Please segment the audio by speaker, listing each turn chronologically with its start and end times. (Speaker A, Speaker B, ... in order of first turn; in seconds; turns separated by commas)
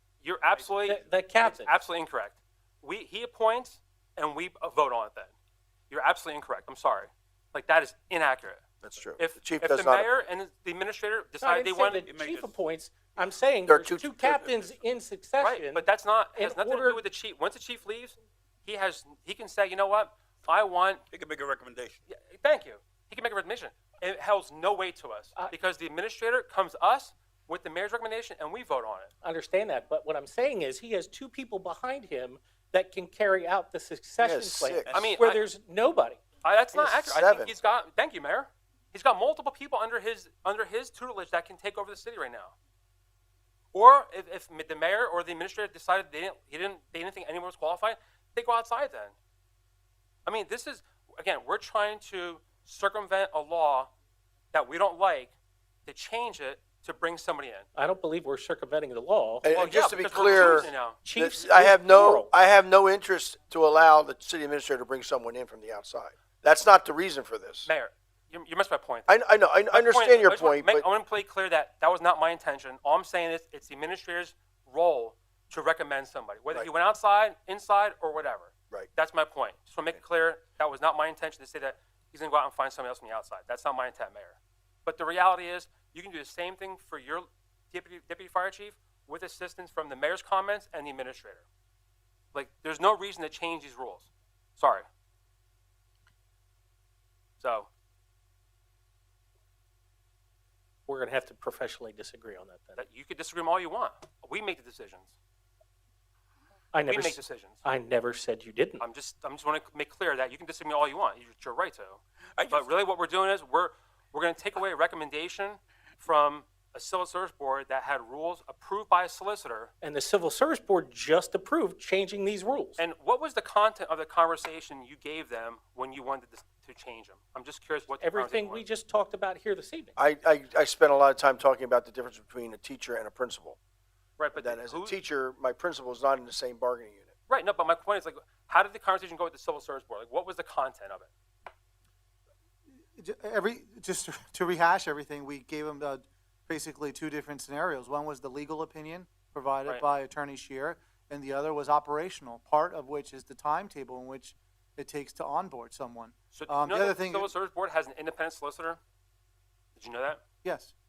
Speaker A: 0.2-5.3, Speaker B: 0.8-1.7, Speaker A: 5.9-8.6, Speaker C: 8.8-10.1, Speaker A: 9.2-12.1, Speaker B: 11.4-17.0, Speaker D: 12.0-12.6, Speaker C: 13.7-14.7, Speaker A: 15.4-21.0, Speaker D: 21.1-22.0, Speaker A: 22.1-29.1, Speaker B: 29.2-36.2, Speaker C: 34.2-35.0, Speaker A: 34.9-35.4, Speaker A: 36.4-42.5, Speaker C: 36.7-37.5, Speaker A: 43.7-49.1, Speaker A: 50.2-53.9, Speaker A: 54.5-55.3, Speaker A: 55.9-57.7, Speaker B: 57.7-59.5, Speaker C: 59.4-67.7, Speaker A: 59.5-61.0, Speaker B: 60.1-62.3, Speaker A: 67.6-69.1, Speaker C: 69.1-70.8, Speaker A: 69.7-91.4, Speaker A: 92.3-94.8, Speaker A: 97.4-97.7, Speaker B: 100.9-102.8, Speaker A: 102.8-105.1, Speaker B: 106.7-108.8, Speaker A: 106.8-107.6, Speaker A: 108.8-119.7, Speaker D: 112.4-112.7, Speaker B: 119.8-122.8, Speaker A: 122.8-128.6, Speaker B: 128.0-129.9, Speaker C: 130.0-133.6, Speaker A: 134.2-134.9, Speaker C: 134.3-137.1, Speaker A: 137.3-141.1, Speaker E: 142.9-157.3, Speaker A: 156.3-158.8, Speaker A: 159.8-160.2, Speaker E: 160.4-160.7